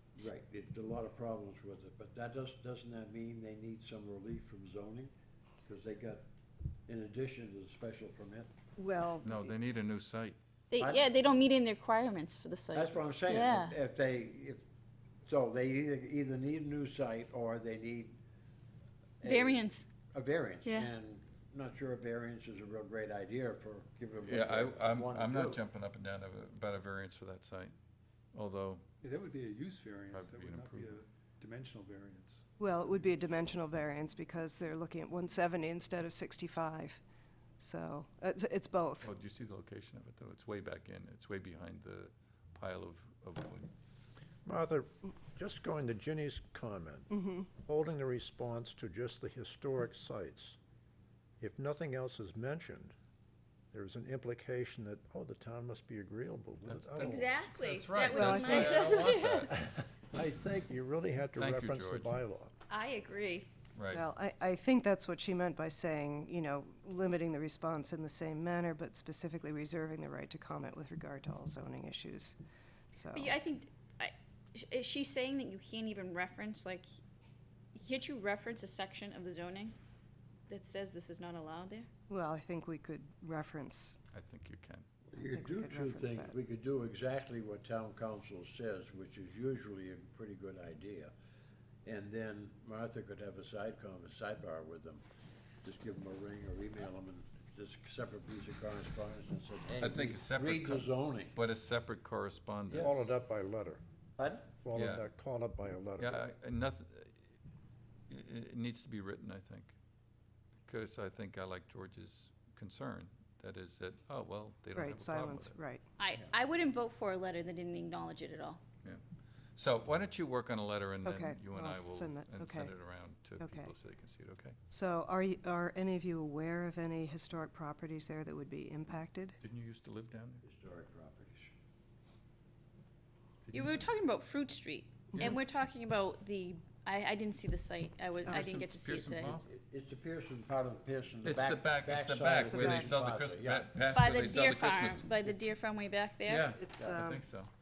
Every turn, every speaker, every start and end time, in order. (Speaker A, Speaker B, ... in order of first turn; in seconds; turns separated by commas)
Speaker A: 0.1-5.1, Speaker A: 5.6-6.2, Speaker A: 6.9-8.5, Speaker B: 8.8-9.6, Speaker C: 9.2-10.4, Speaker D: 10.7-13.8, Speaker A: 10.8-11.1, Speaker A: 12.7-14.6, Speaker A: 15.3-18.2, Speaker A: 19.2-25.6, Speaker D: 19.2-19.9, Speaker D: 20.6-20.9, Speaker C: 24.2-27.7, Speaker C: 28.3-28.8, Speaker E: 29.0-32.5, Speaker C: 30.1-31.0, Speaker B: 32.6-37.0, Speaker B: 37.6-39.1, Speaker C: 39.0-43.7, Speaker F: 44.5-50.6, Speaker B: 47.1-47.5, Speaker F: 51.4-53.0, Speaker F: 53.7-57.5, Speaker C: 56.6-59.6, Speaker D: 57.0-59.5, Speaker B: 58.1-58.8, Speaker F: 59.5-62.5, Speaker C: 61.4-62.2, Speaker D: 62.7-63.5, Speaker C: 63.8-64.0, Speaker B: 63.9-72.4, Speaker B: 72.9-73.3, Speaker D: 73.1-76.9, Speaker D: 77.8-79.8, Speaker D: 80.5-81.9, Speaker B: 82.1-84.0, Speaker C: 84.1-84.8, Speaker A: 85.1-91.1, Speaker B: 85.3-86.4, Speaker A: 91.8-95.0, Speaker A: 95.6-101.3, Speaker C: 99.8-103.1, Speaker A: 102.7-103.0, Speaker F: 102.7-103.8, Speaker A: 104.2-104.5, Speaker F: 104.5-106.2, Speaker C: 104.7-105.1, Speaker C: 106.0-107.2, Speaker C: 108.1-109.8, Speaker C: 110.7-115.6, Speaker B: 114.8-115.8, Speaker D: 116.0-118.6, Speaker C: 119.5-124.6, Speaker B: 121.0-122.8, Speaker B: 123.4-123.7, Speaker B: 124.7-129.4, Speaker C: 129.4-130.4, Speaker A: 130.4-131.5, Speaker C: 133.5-133.9, Speaker D: 133.5-139.4, Speaker C: 138.2-139.5, Speaker B: 138.3-138.6, Speaker A: 139.4-143.8, Speaker C: 141.2-145.1, Speaker B: 142.5-142.9, Speaker D: 143.9-146.5, Speaker C: 146.2-147.5, Speaker B: 146.6-147.2